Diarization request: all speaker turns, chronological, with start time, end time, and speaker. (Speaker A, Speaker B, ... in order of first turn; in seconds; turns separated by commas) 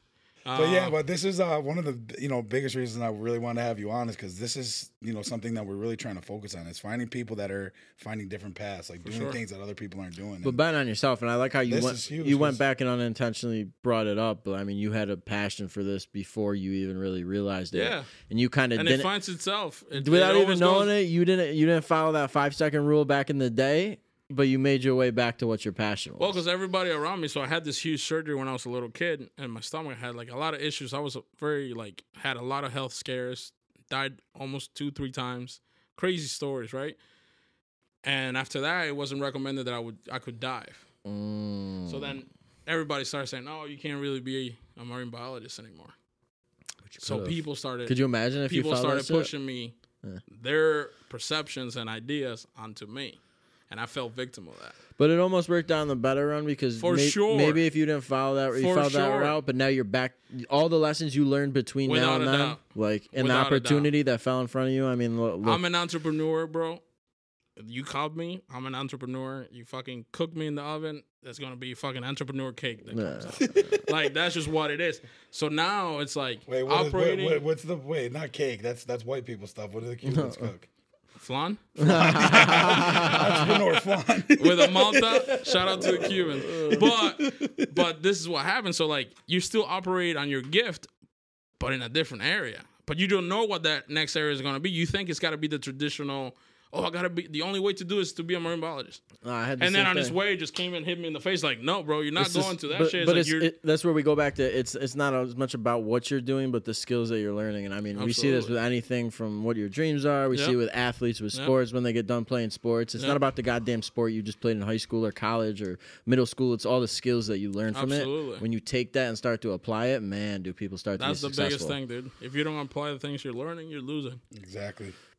Speaker A: 0.4-0.9, Speaker B: 0.5-10.6, Speaker A: 9.0-9.4, Speaker C: 10.4-19.1, Speaker B: 11.7-12.6, Speaker A: 17.7-18.1, Speaker A: 18.7-20.9, Speaker C: 19.9-26.4, Speaker A: 26.2-37.0, Speaker A: 38.0-40.8, Speaker C: 41.0-42.2, Speaker A: 41.9-45.9, Speaker C: 46.9-49.3, Speaker A: 47.0-49.7, Speaker A: 50.3-54.8, Speaker C: 55.0-65.6, Speaker A: 56.8-57.6, Speaker A: 58.5-59.4, Speaker A: 61.8-62.6, Speaker A: 63.1-63.9, Speaker A: 65.4-66.8, Speaker A: 67.6-77.4, Speaker C: 72.9-73.8, Speaker B: 73.5-74.1, Speaker B: 76.5-80.7, Speaker C: 80.0-80.5, Speaker A: 81.2-83.8, Speaker C: 81.8-83.3, Speaker B: 81.8-87.8, Speaker A: 84.3-90.9, Speaker C: 86.1-86.9, Speaker A: 91.6-99.0, Speaker C: 99.2-100.2, Speaker A: 99.6-103.5, Speaker C: 102.2-121.8, Speaker A: 107.9-108.5, Speaker A: 117.7-118.4, Speaker A: 121.0-124.2, Speaker B: 124.3-124.9